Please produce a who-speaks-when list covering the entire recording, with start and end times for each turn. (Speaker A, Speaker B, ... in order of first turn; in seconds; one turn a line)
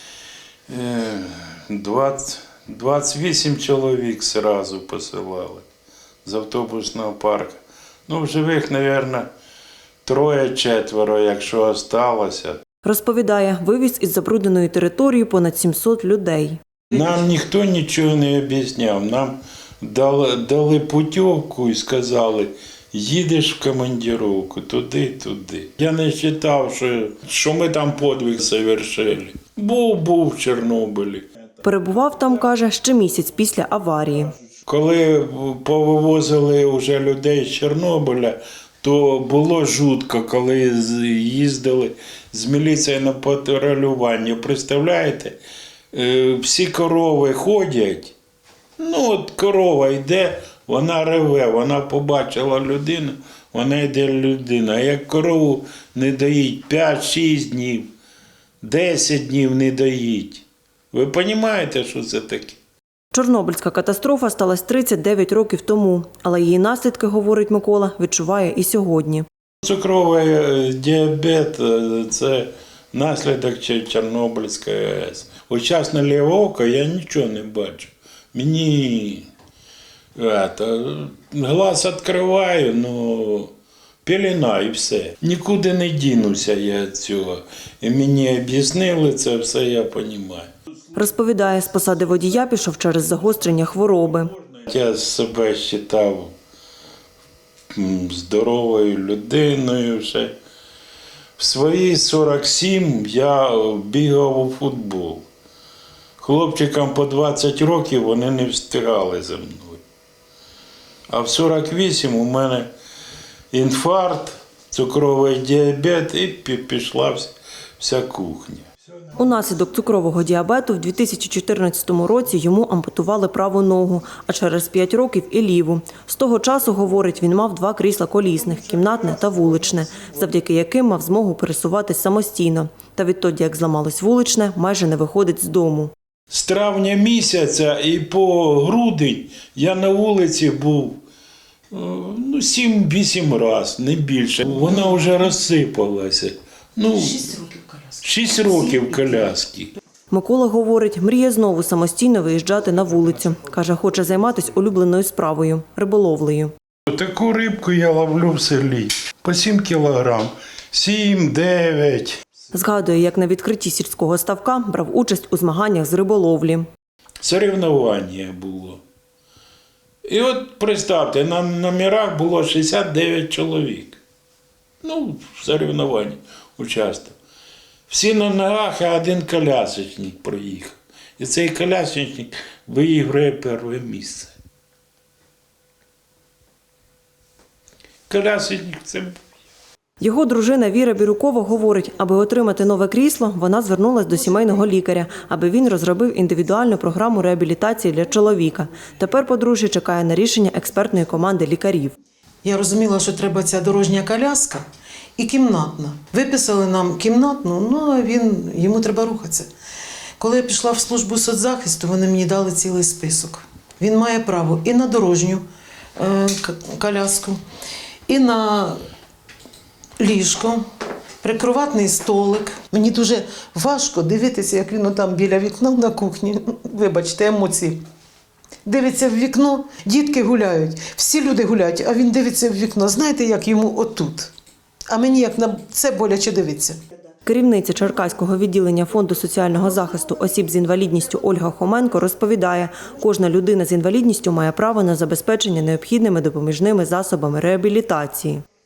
Speaker A: 0.7-5.7
Speaker A: 6.2-9.3
Speaker A: 10.0-12.6
Speaker B: 12.8-16.6
Speaker A: 16.9-31.3
Speaker B: 31.6-34.3
Speaker A: 34.6-45.4
Speaker A: 45.9-48.1
Speaker A: 48.8-57.9
Speaker A: 58.6-62.6
Speaker B: 63.1-69.2
Speaker A: 69.6-79.3
Speaker A: 80.2-83.5
Speaker A: 84.0-90.5
Speaker B: 90.9-94.3
Speaker A: 94.3-96.3
Speaker A: 97.7-100.3
Speaker A: 101.4-105.2
Speaker A: 106.2-109.8
Speaker A: 111.1-112.7
Speaker A: 113.5-118.7
Speaker B: 119.2-135.9
Speaker A: 136.3-141.0
Speaker A: 141.7-149.7
Speaker B: 150.1-156.5
Speaker A: 156.9-162.2
Speaker B: 162.5-166.7
Speaker A: 167.2-168.8
Speaker A: 170.0-174.0
Speaker A: 174.8-177.2
Speaker A: 177.9-184.3
Speaker A: 188.1-189.2
Speaker B: 190.0-201.9
Speaker C: 202.4-204.7
Speaker C: 205.2-209.5
Speaker C: 210.2-215.4
Speaker C: 216.0-217.4
Speaker C: 218.1-218.8
Speaker C: 220.0-220.6
Speaker C: 221.2-227.8
Speaker C: 228.6-234.3
Speaker C: 234.9-236.8
Speaker B: 237.2-248.4